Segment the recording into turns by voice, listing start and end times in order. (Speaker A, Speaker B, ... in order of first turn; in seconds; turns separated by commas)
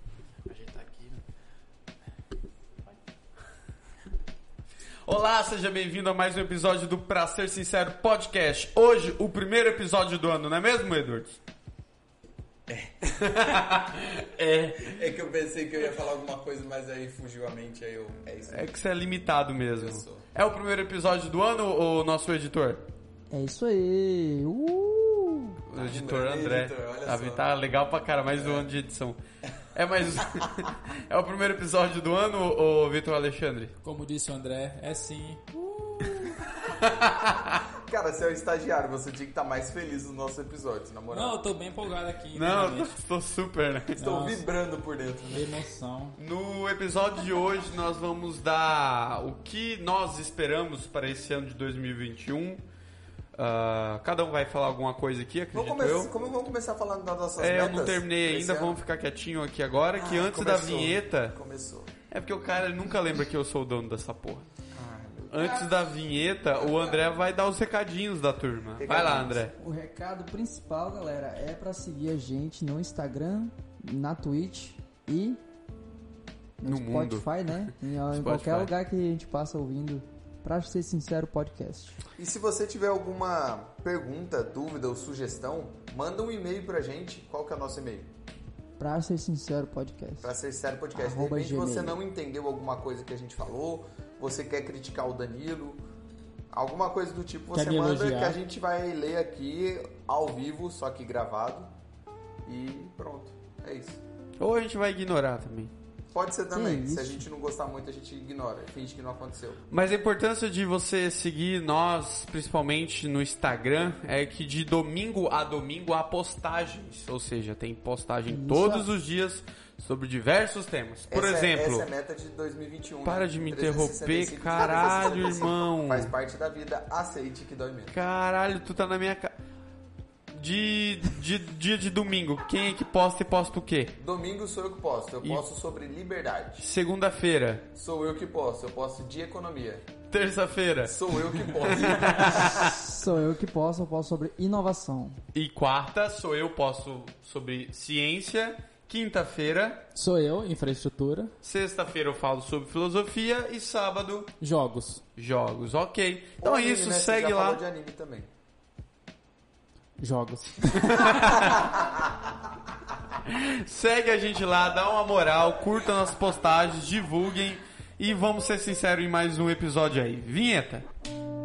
Speaker A: 0.5-1.2, Speaker B: 5.0-11.4, Speaker C: 12.7-13.1, Speaker B: 13.1-15.0, Speaker C: 14.8-18.7, Speaker B: 18.5-22.8, Speaker C: 19.7-20.3, Speaker D: 23.3-25.6, Speaker B: 25.7-29.2, Speaker C: 25.7-27.4, Speaker C: 28.4-28.7, Speaker B: 29.8-33.7, Speaker A: 33.8-36.3, Speaker B: 36.8-37.6, Speaker C: 37.7-41.4, Speaker A: 41.1-43.0, Speaker B: 42.3-44.0, Speaker A: 44.0-44.5, Speaker C: 44.0-45.5, Speaker A: 45.3-46.2, Speaker B: 46.2-52.6, Speaker B: 53.4-56.1, Speaker C: 55.5-58.8, Speaker B: 57.4-61.4, Speaker C: 60.0-61.9, Speaker B: 62.1-64.5, Speaker C: 64.7-65.9, Speaker B: 65.3-69.5, Speaker C: 66.5-66.9, Speaker C: 68.8-69.5, Speaker D: 69.5-75.4, Speaker D: 76.6-82.0, Speaker B: 76.7-78.7, Speaker C: 82.2-88.1, Speaker D: 88.8-90.3, Speaker C: 90.2-95.8, Speaker D: 91.0-92.0, Speaker C: 96.5-101.7, Speaker A: 97.5-98.4, Speaker C: 102.5-104.0, Speaker B: 104.4-105.7, Speaker C: 106.1-109.6, Speaker D: 106.5-107.2, Speaker B: 109.7-121.9, Speaker D: 118.3-118.9, Speaker C: 121.1-128.0, Speaker B: 123.0-126.1, Speaker B: 127.9-129.3, Speaker B: 130.3-134.0, Speaker C: 134.0-136.7, Speaker B: 136.6-137.7, Speaker C: 137.8-139.8, Speaker B: 140.1-141.0, Speaker C: 140.8-142.5, Speaker B: 141.6-142.8, Speaker D: 142.2-145.2, Speaker B: 145.3-149.8, Speaker A: 149.9-151.3, Speaker B: 151.4-154.3, Speaker A: 154.4-155.0, Speaker B: 155.2-157.6, Speaker C: 156.4-158.3, Speaker A: 160.0-161.4, Speaker B: 160.8-161.6, Speaker C: 161.6-162.0, Speaker B: 163.2-170.9